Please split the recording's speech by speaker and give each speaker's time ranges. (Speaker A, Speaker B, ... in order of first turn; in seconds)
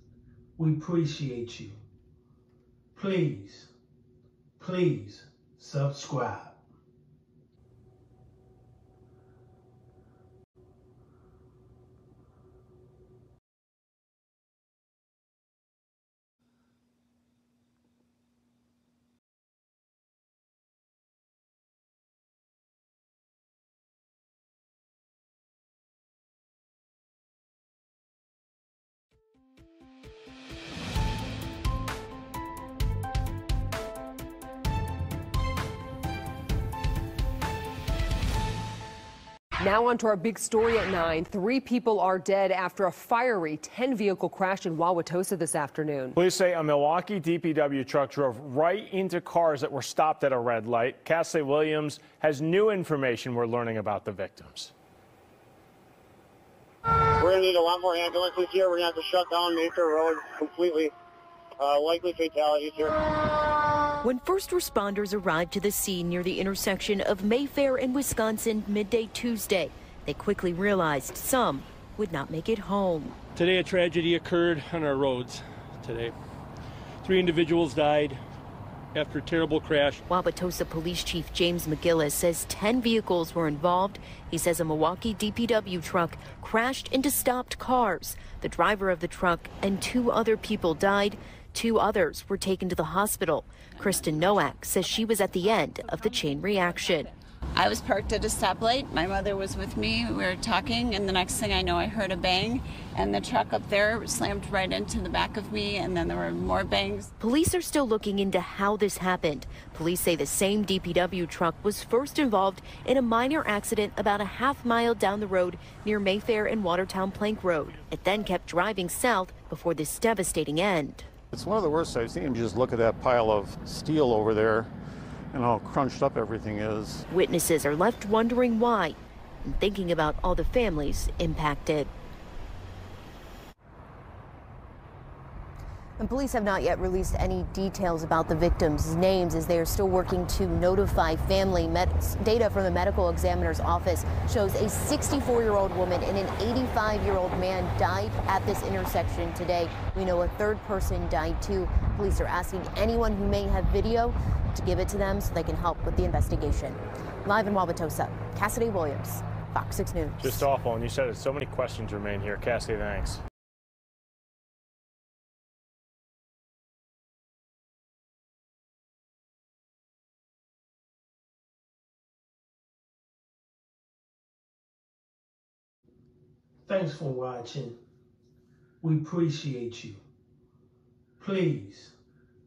Speaker A: 0.6-1.8, 2.9-3.7, 4.6-6.6, 176.7-177.8, 178.8-180.0, 181.2-181.9
Speaker B: 39.6-46.2
Speaker C: 46.1-54.7, 160.2-163.2
Speaker D: 57.2-60.9, 61.6-63.0
Speaker E: 64.0-73.2, 80.1-97.1, 107.2-121.1, 127.1-131.9
Speaker F: 73.4-76.1, 77.0-78.2, 79.0-80.0
Speaker G: 97.5-107.1
Speaker H: 121.3-124.7, 125.3-127.0
Speaker I: 136.0-160.5